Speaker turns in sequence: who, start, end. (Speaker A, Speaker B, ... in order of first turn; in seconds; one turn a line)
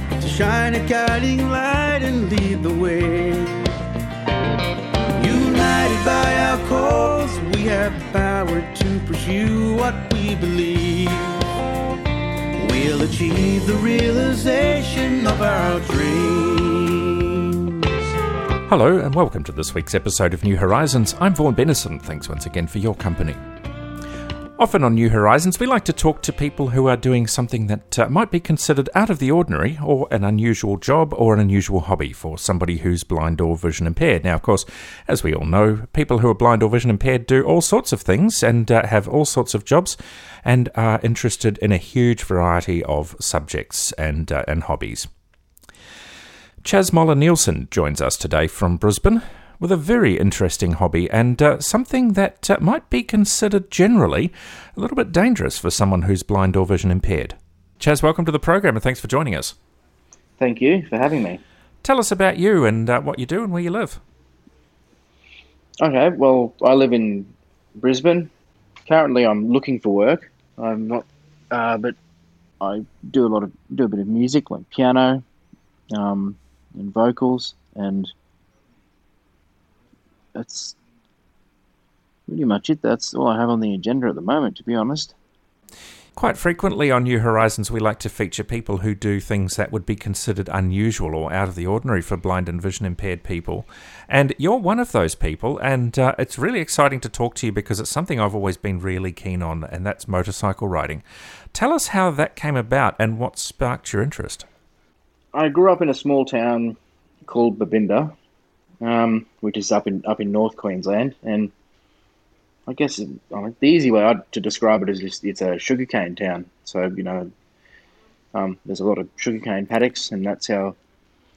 Speaker A: 0.2-3.7
Speaker A: 5.2-11.4
Speaker A: 12.6-17.9
Speaker B: 18.7-23.4
Speaker B: 24.6-45.1
Speaker B: 46.6-59.5
Speaker C: 60.4-61.4
Speaker B: 61.8-64.0
Speaker C: 65.8-68.3
Speaker C: 68.9-72.0
Speaker C: 72.6-75.2
Speaker C: 75.9-78.1
Speaker C: 80.3-80.8
Speaker C: 82.3-85.2
Speaker B: 86.2-101.0
Speaker B: 101.5-104.5
Speaker C: 105.3-108.1
Speaker C: 108.8-111.5
Speaker C: 112.7-117.3
Speaker C: 118.3-120.8